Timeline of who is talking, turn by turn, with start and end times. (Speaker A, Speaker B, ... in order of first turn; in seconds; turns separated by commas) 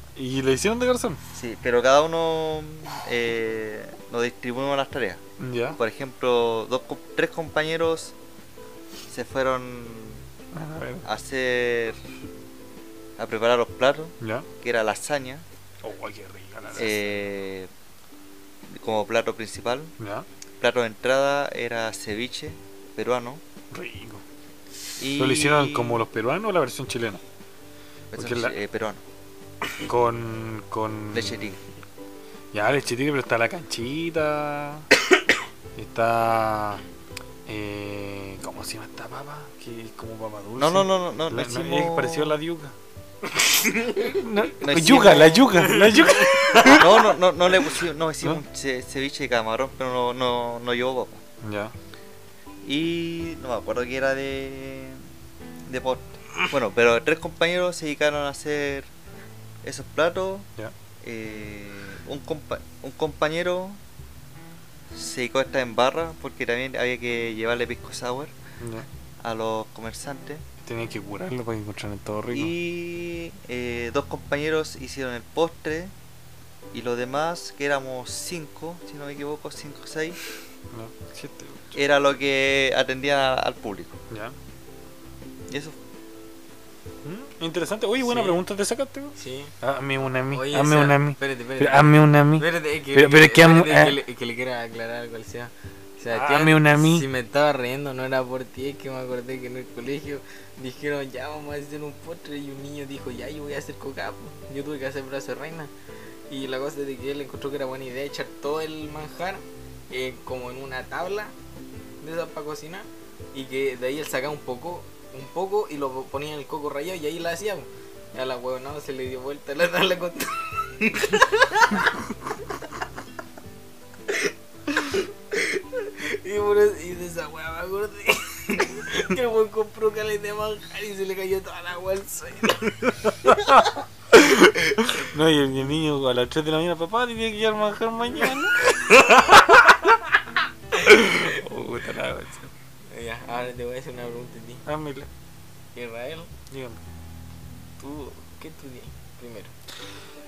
Speaker A: 0.1-1.2, Speaker B: 1.3-5.2, Speaker A: 5.4-5.8, Speaker B: 5.8-8.1, Speaker B: 9.1-10.2, Speaker A: 10.5-11.1, Speaker B: 11.0-12.0, Speaker B: 13.2-15.4, Speaker A: 14.2-14.5, Speaker A: 15.8-17.2, Speaker B: 16.8-17.7, Speaker B: 18.7-19.9, Speaker A: 20.0-20.2, Speaker B: 20.6-23.4, Speaker A: 23.7-24.2, Speaker B: 25.0-26.1, Speaker A: 25.1-27.2, Speaker B: 28.1-29.0, Speaker A: 28.1-28.5, Speaker A: 29.8-31.5, Speaker B: 31.1-31.6, Speaker A: 32.5-34.9, Speaker A: 35.8-36.8, Speaker A: 37.5-42.7, Speaker B: 40.6-42.4, Speaker C: 43.5-44.2, Speaker A: 43.9-46.9, Speaker B: 44.6-45.8, Speaker C: 45.6-47.0, Speaker B: 46.6-51.2, Speaker A: 51.4-51.7, Speaker B: 52.6-55.0, Speaker B: 55.7-58.9, Speaker B: 59.6-60.5, Speaker B: 61.0-63.8, Speaker B: 64.9-68.3, Speaker A: 68.6-68.8, Speaker B: 69.2-70.4, Speaker A: 70.6-72.5, Speaker B: 72.3-75.9, Speaker B: 76.7-80.2, Speaker A: 80.7-81.7, Speaker B: 81.7-84.0, Speaker B: 85.5-85.8, Speaker A: 87.0-94.0, Speaker C: 88.0-88.4, Speaker C: 89.2-89.5, Speaker C: 90.3-105.7, Speaker A: 96.1-97.0, Speaker C: 106.3-111.3, Speaker C: 112.0-122.0, Speaker C: 124.1-133.7, Speaker A: 133.0-139.8, Speaker C: 134.7-135.0, Speaker C: 138.8-139.8, Speaker C: 140.8-141.4, Speaker A: 140.8-142.5, Speaker C: 142.9-144.6, Speaker A: 144.7-145.1, Speaker C: 145.7-146.3, Speaker A: 146.5-146.8, Speaker C: 147.8-149.5